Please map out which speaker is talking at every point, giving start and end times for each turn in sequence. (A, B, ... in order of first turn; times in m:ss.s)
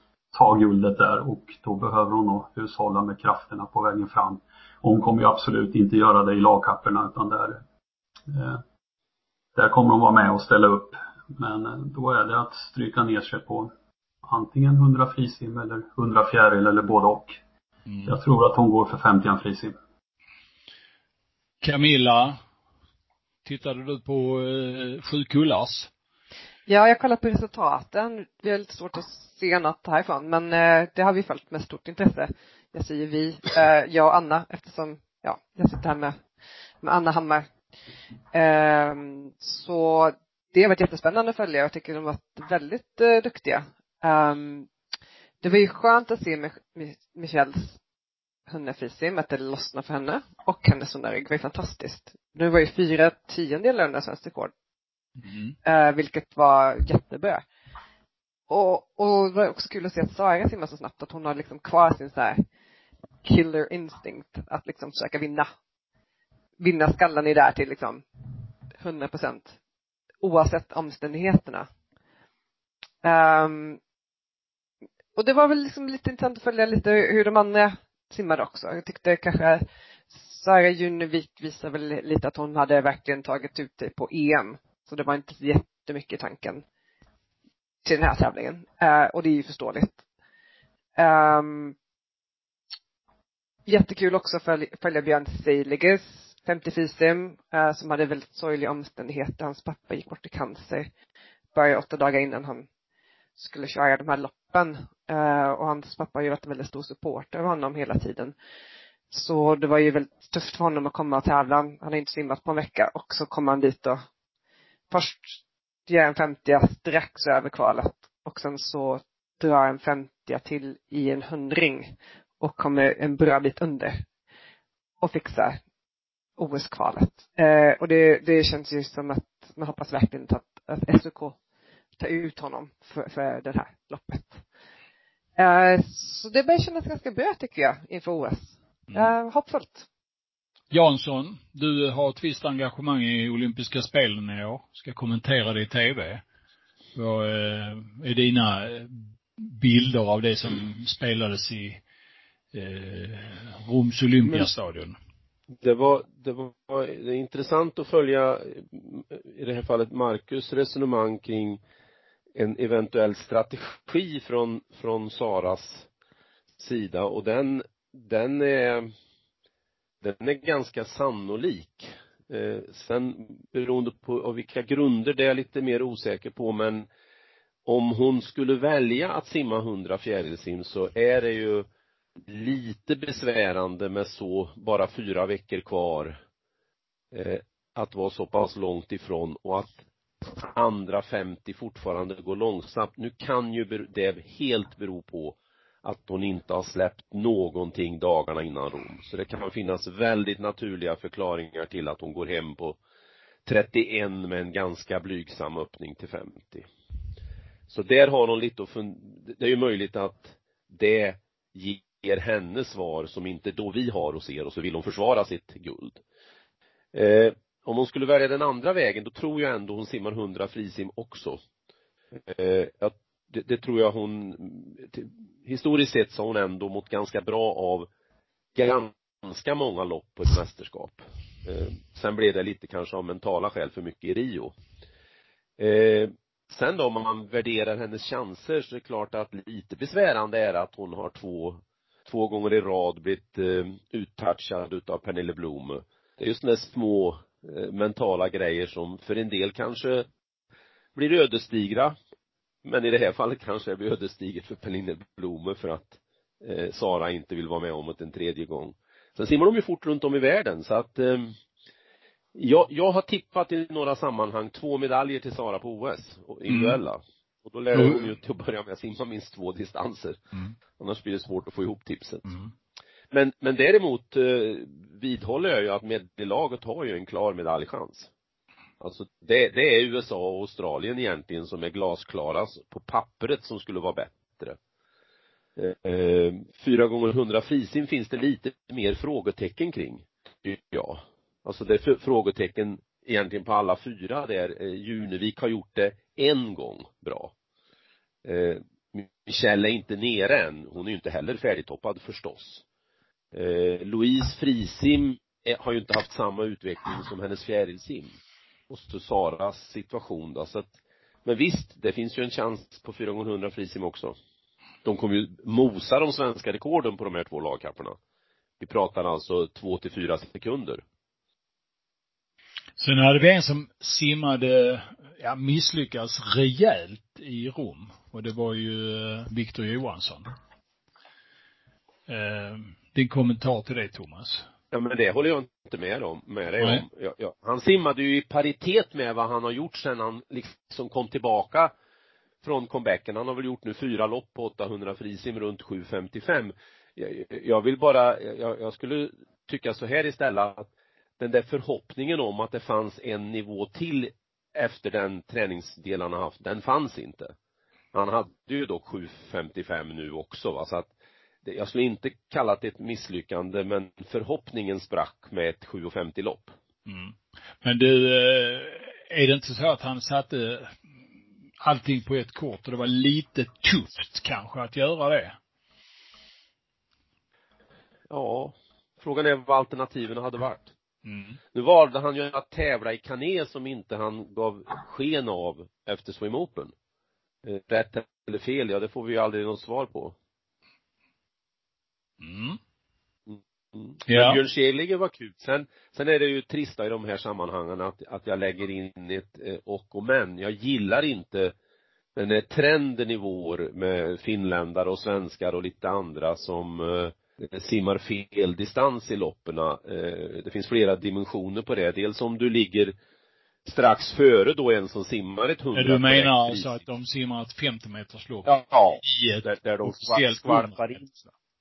0:00.3-0:07.6 A
0:08.3-0:08.6 A
0:09.6-0:13.7 A
0:14.2-0:17.4 A
0:18.0-0:19.8 A
0:21.6-0:22.4 B
0:23.4-0:25.9 B
0:26.7-0:36.2 C
0:36.8-0:37.5 C
0:38.3-0:44.7 C
0:45.4-0:47.8 C
0:48.5-0:54.5 C
0:55.2-0:55.5 B
0:55.6-0:57.4 C
0:58.5-1:02.4 C
1:03.2-1:05.5 C
1:06.6-1:08.0 C
1:08.7-1:09.5 C
1:10.2-1:11.7 C
1:13.0-1:13.8 C
1:15.2-1:26.6 C
1:27.8-1:30.0 C
1:31.0-1:31.7 C
1:33.7-1:40.9 C
1:41.5-1:42.7 C
1:43.4-1:48.3 C
1:49.1-1:54.0 C
1:54.9-1:55.4 C
1:55.9-2:04.0 C
2:05.0-2:05.6 C
2:06.4-2:11.4 C
2:12.0-2:14.4 C
2:15.4-2:19.8 C
2:20.7-2:26.2 B
2:26.9-2:31.8 B
2:32.5-2:35.0 B
2:35.6-2:41.6 D
2:42.4-2:45.9 D
2:46.6-2:48.9 D
2:50.0-2:56.9 D
2:57.6-3:01.6 D
3:02.3-3:06.2 D
3:07.1-3:09.8 D
3:10.4-3:22.8 D
3:23.4-3:26.7 D
3:27.7-3:36.0 D
3:36.9-3:41.4 D
3:42.1-3:47.9 D
3:48.6-3:54.5 D
3:55.6-4:10.0 D
4:10.9-4:12.0 D
4:12.6-4:21.4 D
4:22.3-4:30.2 D
4:26.5-4:26.8 B
4:27.7-4:28.0 B
4:30.8-4:32.3 D
4:33.1-4:38.1 D
4:38.8-4:44.6 D
4:45.6-4:57.3 D
4:58.2-5:02.6 D
5:03.3-5:08.2 D
5:08.7-5:10.7 D
5:11.2-5:14.2 D
5:14.8-5:18.0 D
5:18.6-5:20.8 D
5:22.8-5:30.3 B
5:32.1-5:34.5 B
5:34.7-5:41.7 D
5:42.4-5:50.7 D
5:51.2-5:57.3 D
5:57.9-6:00.9 D
6:01.4-6:06.5 D
6:06.9-6:10.8 B
6:11.6-6:15.4 B
6:18.1-6:20.7 D
6:21.0-6:21.4 B
6:21.5-6:26.7 D
6:27.4-6:30.1 D
6:32.2-6:32.6 B
6:33.3-6:41.5 D
6:34.1-6:34.4 B
6:42.1-6:52.9 D
6:53.6-6:56.7 D
6:55.7-7:01.3 B
6:58.4-7:01.0 D